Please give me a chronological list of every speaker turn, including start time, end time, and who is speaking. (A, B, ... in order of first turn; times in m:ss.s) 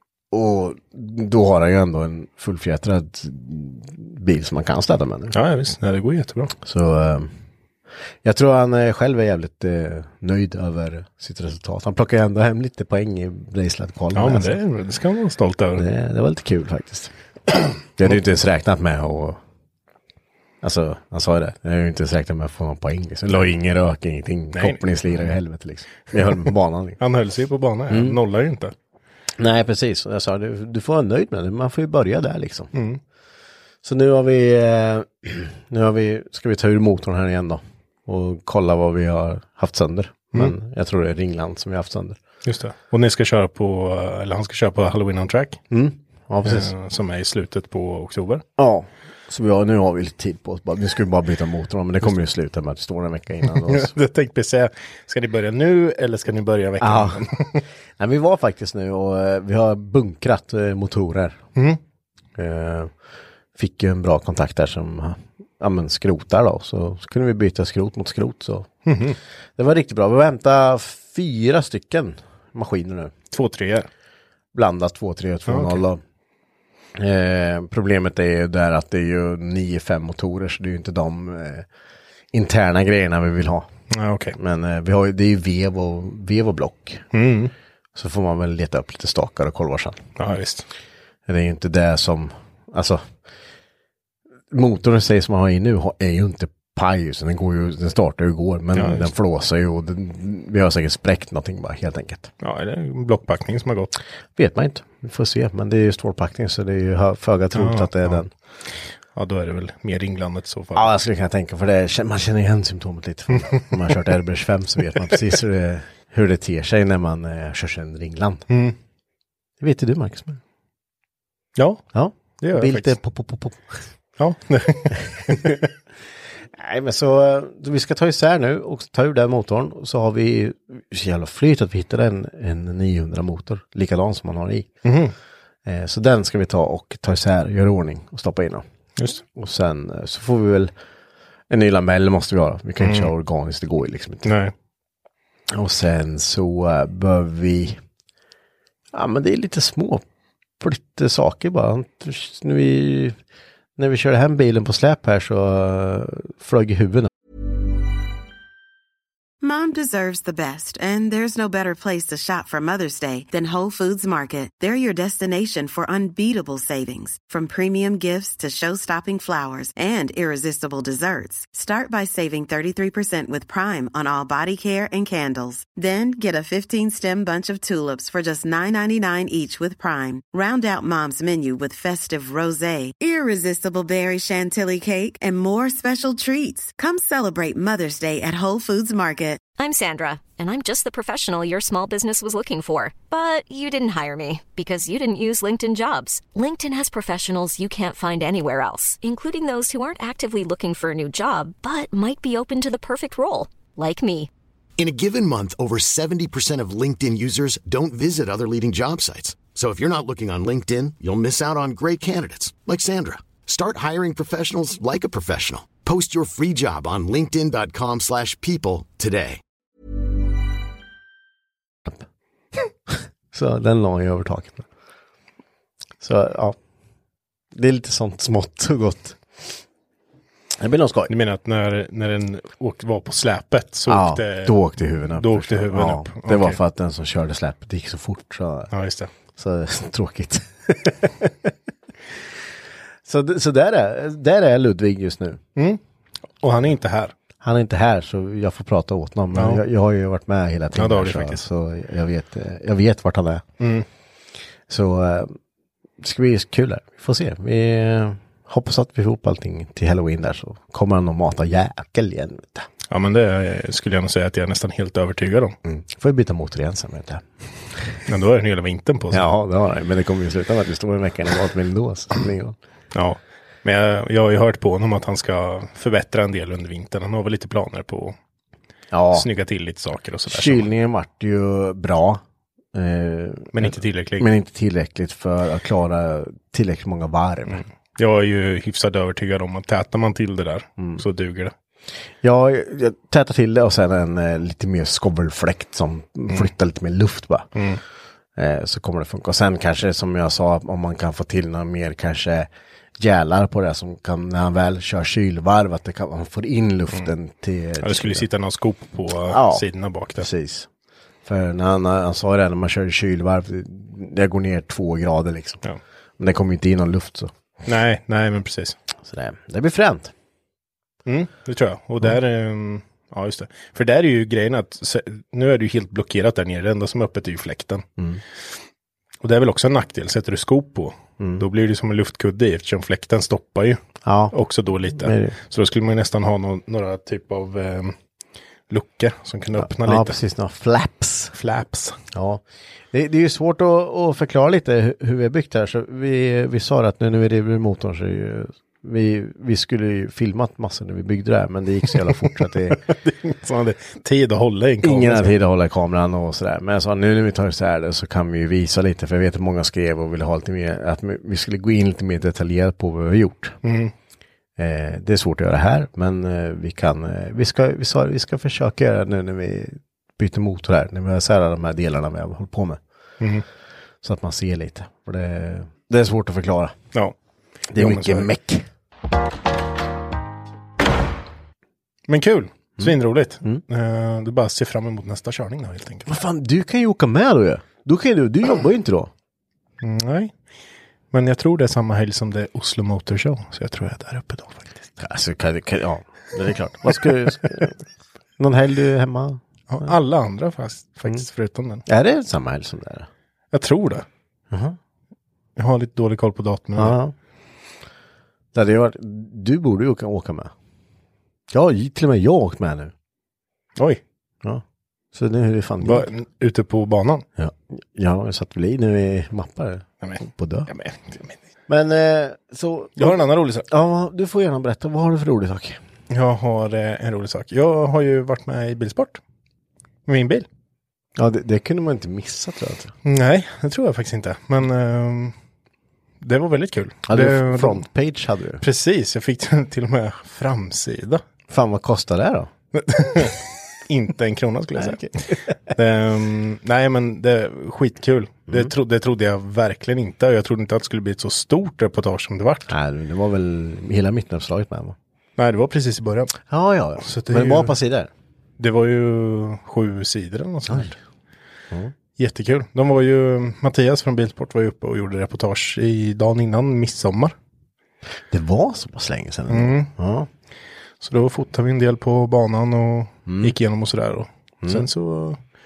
0:00.3-0:05.4 A
0:05.3-0:06.5 B
0:06.6-0:07.3 A
0:08.2-0:14.6 A
0:14.1-0:15.8 B
0:15.8-0:19.4 A
0:20.6-0:27.0 A
0:24.5-0:25.3 B
0:27.0-0:28.7 B
0:27.9-0:28.2 A
0:29.4-0:32.7 A
0:32.7-0:33.0 B
0:33.8-0:42.2 A
0:42.4-0:45.6 B
0:45.7-0:46.7 A
0:46.4-0:48.4 B
0:48.6-0:53.9 A
0:53.5-0:57.6 B
0:56.8-0:57.3 A
0:58.0-1:01.4 A
1:02.4-1:02.9 A
1:03.6-1:08.7 A
1:08.9-1:09.2 B
1:09.6-1:13.1 A
1:13.3-1:13.9 B
1:14.5-1:16.0 A
1:15.5-1:15.8 B
1:17.0-1:21.7 A
1:22.3-1:23.7 A
1:23.9-1:24.4 B
1:24.4-1:27.1 A
1:27.1-1:27.5 B
1:28.0-1:30.1 A
1:30.2-1:30.7 B
1:31.3-1:33.0 A
1:34.5-1:42.3 A
1:38.8-1:39.1 B
1:42.4-1:43.9 B
1:44.4-1:48.3 A
1:47.5-1:48.2 B
1:49.2-1:50.9 B
1:50.8-1:58.4 A
1:58.5-1:58.8 B
1:59.6-2:00.4 A
2:01.6-2:01.8 B
2:01.9-2:03.8 A
2:02.4-2:03.0 B
2:04.2-2:05.7 B
2:06.5-2:14.7 A
2:14.8-2:15.1 B
2:15.6-2:18.6 A
2:19.0-2:19.2 B
2:19.3-2:20.7 A
2:21.5-2:24.3 A
2:22.8-2:23.1 B
2:24.2-2:24.5 B
2:25.5-2:27.8 A
2:28.9-2:30.0 A
2:30.6-2:33.2 A
2:33.8-2:37.1 A
2:39.4-3:09.4 C
3:09.6-3:24.3 D
3:24.8-3:39.4 E
3:42.9-3:44.7 A
3:46.0-3:46.6 A
3:47.5-3:49.6 A
3:50.6-3:51.1 A
3:51.1-3:54.6 B
3:53.9-3:58.7 A
3:55.1-3:56.6 B
3:58.7-3:59.1 B
3:59.4-4:01.5 A
4:03.0-4:05.4 A
4:06.4-4:07.2 B
4:07.4-4:13.4 A
4:09.3-4:09.6 B
4:10.8-4:11.4 B
4:13.6-4:13.9 B
4:14.7-4:15.4 A
4:16.0-4:22.7 A
4:22.9-4:25.6 B
4:25.6-4:27.2 A
4:28.1-4:29.3 B
4:29.1-4:32.6 A
4:32.9-4:38.2 B
4:38.9-4:39.3 A
4:39.1-4:40.7 B
4:40.3-4:42.2 A
4:42.7-4:47.6 A
4:43.5-4:44.3 B
4:47.5-4:51.5 B
4:52.2-4:57.5 A
4:57.6-4:57.8 B
4:58.4-5:08.3 A
5:07.8-5:10.3 B
5:09.3-5:09.7 A
5:10.2-5:10.7 A
5:11.2-5:15.6 A
5:16.2-5:17.3 A
5:17.7-5:18.8 B
5:19.0-5:20.1 A
5:21.1-5:27.8 B
5:29.2-5:33.8 B
5:31.2-5:31.4 A
5:34.0-5:34.4 A
5:34.3-5:38.0 B
5:35.0-5:35.4 A
5:38.7-5:40.2 B
5:39.6-5:41.3 A
5:41.3-5:42.0 B
5:42.1-5:52.8 A
5:52.7-5:55.3 B
5:54.8-6:03.6 A
6:03.6-6:03.9 B
6:04.6-6:12.8 A
6:14.0-6:16.8 A
6:17.7-6:18.3 B
6:17.7-6:18.7 A
6:22.1-6:26.1 B
6:26.1-6:29.1 A
6:29.8-6:30.3 B
6:31.1-6:34.8 B
6:35.0-6:37.8 A
6:38.4-6:39.9 A
6:39.7-6:41.8 B
6:41.9-6:43.1 A
6:43.5-6:44.0 B
6:44.5-6:44.8 A
6:45.6-6:47.0 B
6:46.8-6:47.1 A
6:48.5-6:50.5 A
6:51.5-6:52.9 A
6:54.4-6:56.1 A
6:55.8-6:57.3 B
6:57.4-7:00.7 A
7:00.0-7:01.4 B
7:01.7-7:03.2 A
7:03.0-7:03.7 B
7:03.7-7:05.8 A
7:06.1-7:09.2 B
7:10.1-7:10.5 B
7:11.2-7:12.9 A
7:13.0-7:15.3 B
7:16.2-7:17.8 B
7:17.1-7:18.6 A
7:18.6-7:21.2 B
7:21.5-7:22.5 A
7:22.8-7:32.7 B
7:24.8-7:25.6 A
7:32.7-7:35.0 A
7:35.4-7:36.4 B
7:36.5-7:38.1 A
7:37.0-7:37.7 B
7:38.6-7:41.0 B
7:42.2-7:47.3 B
7:48.3-7:50.3 A
7:49.5-7:49.9 B
7:51.0-7:55.4 B
7:53.3-7:53.6 A
7:54.6-7:54.9 A